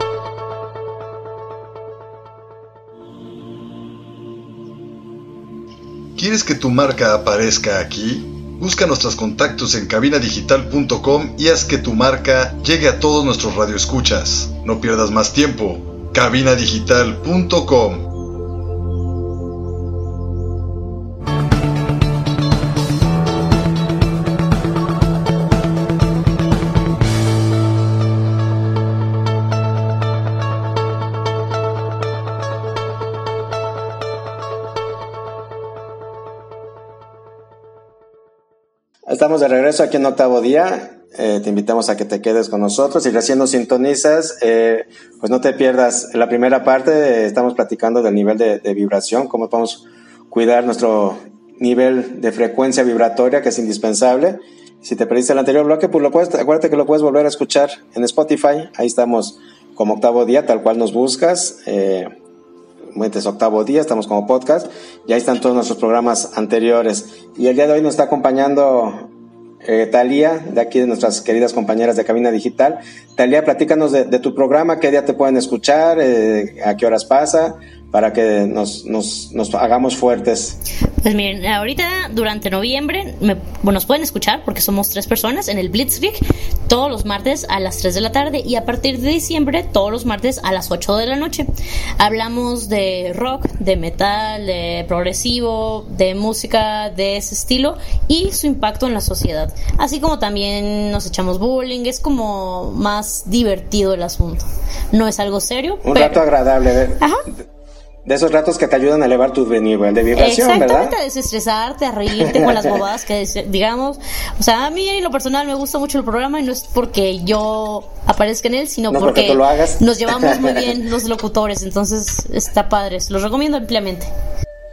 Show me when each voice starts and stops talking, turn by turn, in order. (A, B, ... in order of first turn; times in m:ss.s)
0:06.2-0:18.1 A
0:39.1-1:02.1 B
1:02.9-1:09.1 B
1:09.6-1:20.6 B
1:21.0-1:31.5 C
1:32.0-1:46.2 C
1:45.8-1:47.0 B
1:47.0-1:47.2 C
1:48.0-1:51.0 B
1:50.2-2:04.1 C
1:52.2-1:52.8 B
1:58.9-2:00.7 B